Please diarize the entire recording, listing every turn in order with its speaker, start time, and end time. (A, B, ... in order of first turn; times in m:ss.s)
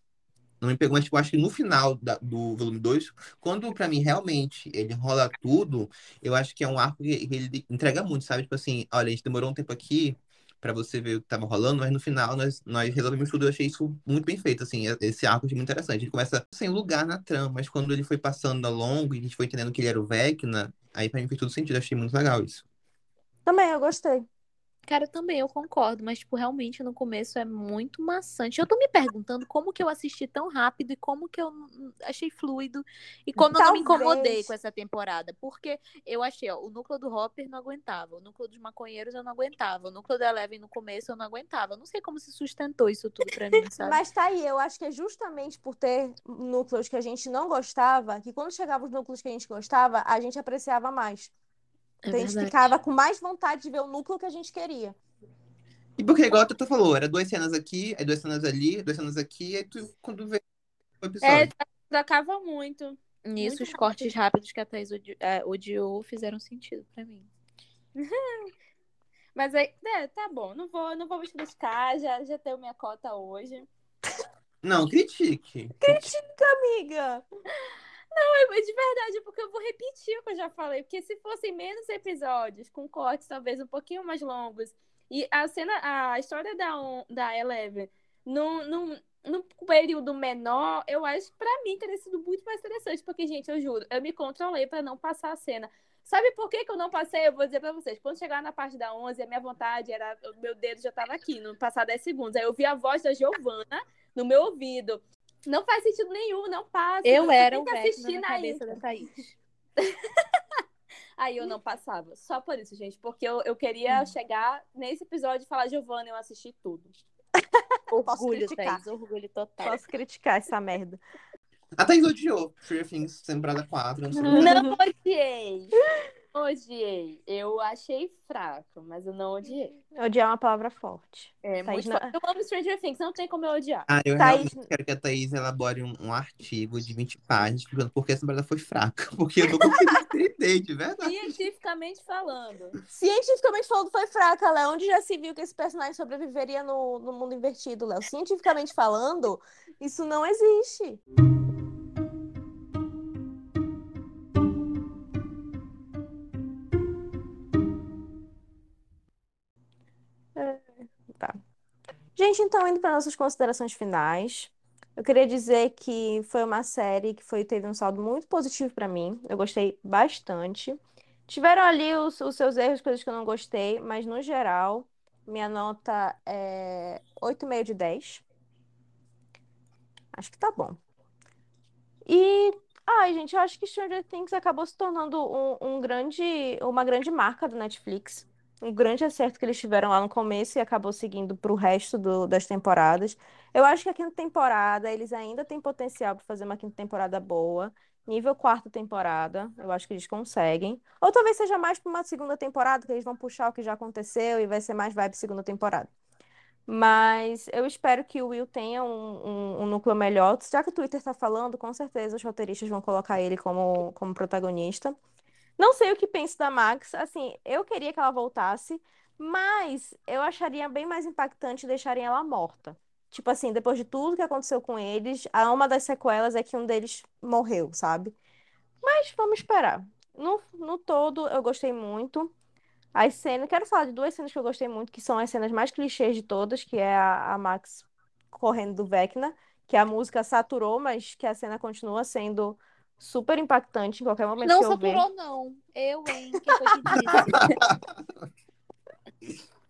0:00.6-0:22.6 A
0:23.4-0:24.3 B
0:24.9-0:44.0 C
0:33.4-0:34.5 B
0:43.8-0:51.3 B
0:52.0-0:52.5 C
0:52.1-0:55.0 B
0:56.0-1:00.4 A
1:01.0-1:01.5 A
1:01.2-1:04.1 D
1:03.2-1:07.3 C
1:08.0-1:08.5 D
1:09.3-1:13.7 D
1:14.6-1:16.1 A
1:15.8-1:17.2 B
1:18.1-1:48.7 D
1:47.0-1:49.4 C
1:49.8-1:50.1 D
1:51.2-1:56.9 D
1:57.6-1:58.8 B
1:57.9-1:59.8 C
1:59.6-2:01.0 B
2:01.8-2:04.6 A
2:04.3-2:05.7 D
2:06.3-2:09.8 D
2:09.9-2:12.1 B
2:11.4-2:13.9 D
2:13.9-2:21.3 A
2:14.2-2:14.7 B
2:21.0-2:22.8 D
2:22.9-2:31.0 B
2:40.4-2:41.4 B
2:42.2-2:58.2 B
3:00.1-3:00.8 B
3:02.0-3:25.9 B
3:26.7-3:35.0 B
3:35.6-3:48.1 B
3:48.8-3:52.3 B
3:52.9-4:05.0 B
4:04.4-4:07.5 C
4:07.1-4:07.8 A